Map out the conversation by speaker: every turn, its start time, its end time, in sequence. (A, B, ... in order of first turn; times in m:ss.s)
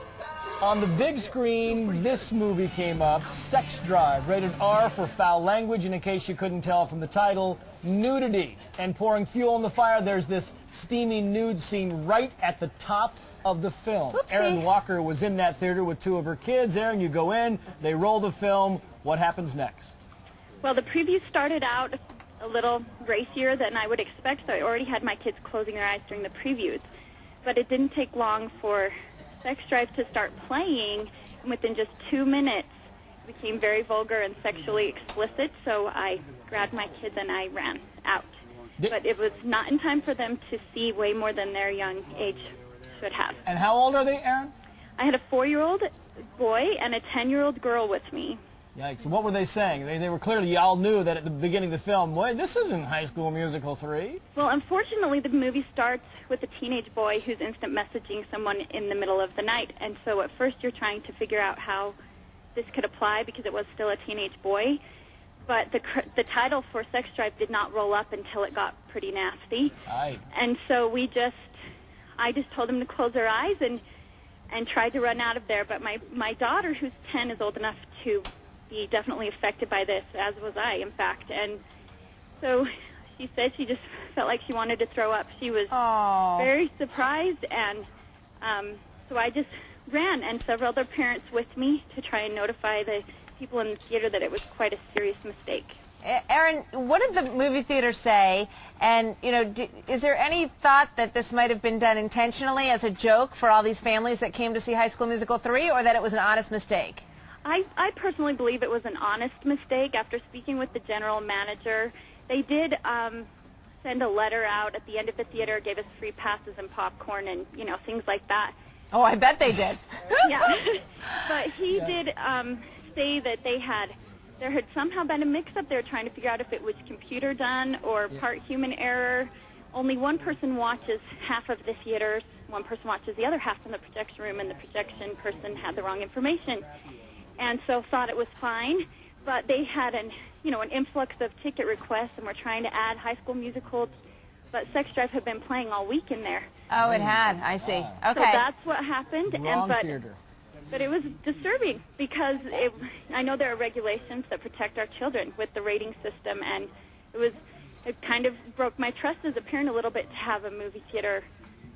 0:00.6-0:20.0 A
0:14.1-0:14.6 B
0:20.6-0:26.9 C
0:27.4-0:28.9 C
0:29.4-0:32.7 C
0:33.2-0:38.3 C
0:38.9-0:43.4 C
0:43.5-0:44.5 A
0:45.0-0:48.4 C
0:48.8-0:54.2 A
0:54.4-1:02.0 C
1:02.6-1:04.8 C
1:05.5-1:09.8 C
1:09.9-1:10.2 A
1:10.3-1:11.5 C
1:12.2-1:13.8 C
1:14.5-1:21.6 C
1:22.4-1:25.7 C
1:25.7-1:26.5 B
1:26.4-1:27.9 C
1:28.4-1:35.8 C
1:36.0-1:47.0 B
1:47.4-1:53.3 C
1:53.8-1:58.6 C
1:58.9-2:00.3 B
2:00.2-2:16.7 C
2:17.4-2:23.9 C
2:24.5-2:26.5 C
2:26.7-2:28.5 B
2:26.8-2:28.0 A
2:28.2-2:30.0 C
2:29.3-2:30.2 A
2:30.7-2:41.3 C